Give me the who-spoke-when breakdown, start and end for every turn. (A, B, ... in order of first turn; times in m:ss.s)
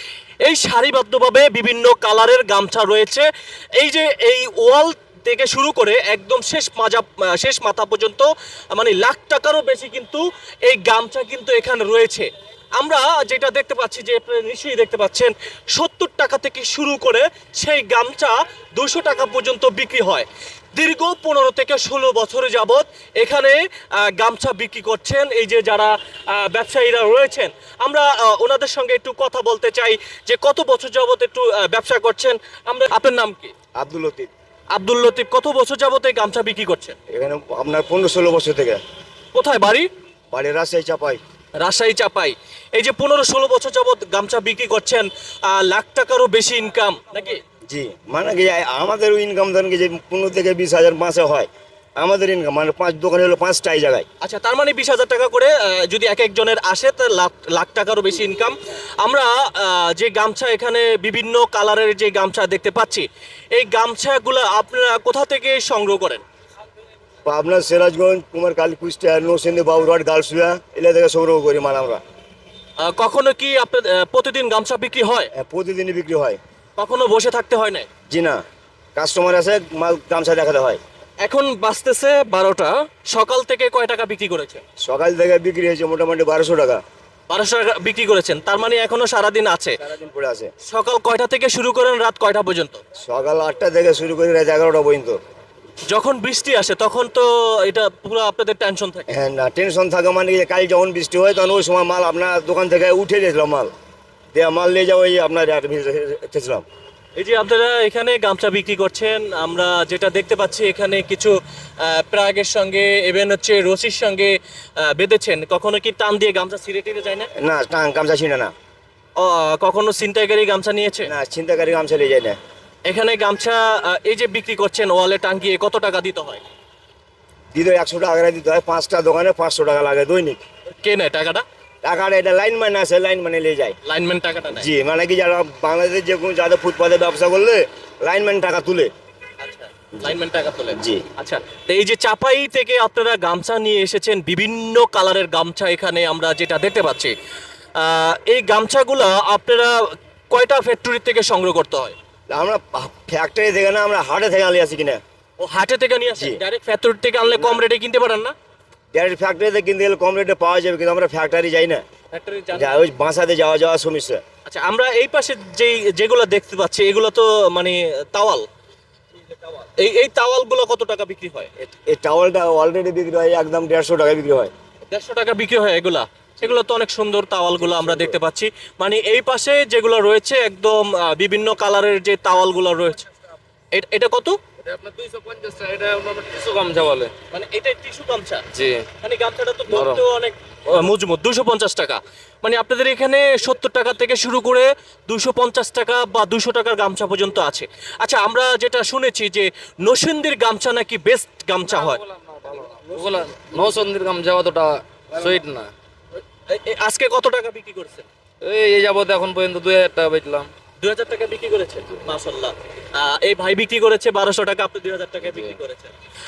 0:00.4-0:33.5 A
0:33.8-0:34.3 B
0:34.7-0:37.0 A
0:37.1-0:38.8 B
0:39.3-0:39.9 A
0:40.3-0:41.2 B
0:41.6-0:47.4 A
0:47.7-0:54.1 B
0:54.2-1:06.2 A
1:07.2-1:12.0 B
1:12.8-1:15.3 A
1:15.4-1:16.4 B
1:16.8-1:17.9 A
1:18.1-1:18.4 B
1:19.0-1:20.8 B
1:21.2-1:24.6 A
1:24.8-1:26.8 B
1:27.3-1:29.8 A
1:29.8-1:30.5 B
1:30.7-1:32.8 A
1:33.0-1:35.2 B
1:35.9-1:39.1 A
1:39.1-1:43.7 B
1:44.3-1:46.6 B
1:47.2-1:57.3 A
1:57.4-1:58.5 B
1:59.2-2:01.1 A
2:01.1-2:02.4 B
2:02.9-2:06.4 A
2:07.5-2:10.4 B
2:10.8-2:11.4 A
2:11.8-2:13.8 B
2:13.9-2:14.7 A
2:14.6-2:18.9 B
2:19.4-2:27.1 A
2:20.8-2:21.0 B
2:27.8-2:32.0 A
2:32.3-2:35.0 B
2:35.4-2:38.3 A
2:38.9-2:41.8 B
2:42.1-2:42.8 A
2:42.5-2:44.2 B
2:44.5-2:48.5 A
2:49.6-2:51.5 A
2:51.6-2:54.5 B
2:54.9-3:03.1 A
3:03.8-3:04.4 A
3:04.6-3:07.1 C
3:07.3-3:08.4 A
3:08.5-3:08.9 C
3:09.0-3:22.0 A
3:09.7-3:10.0 C
3:21.8-3:25.7 C
3:26.5-3:28.1 A
3:28.4-3:30.5 C
3:30.8-3:35.9 A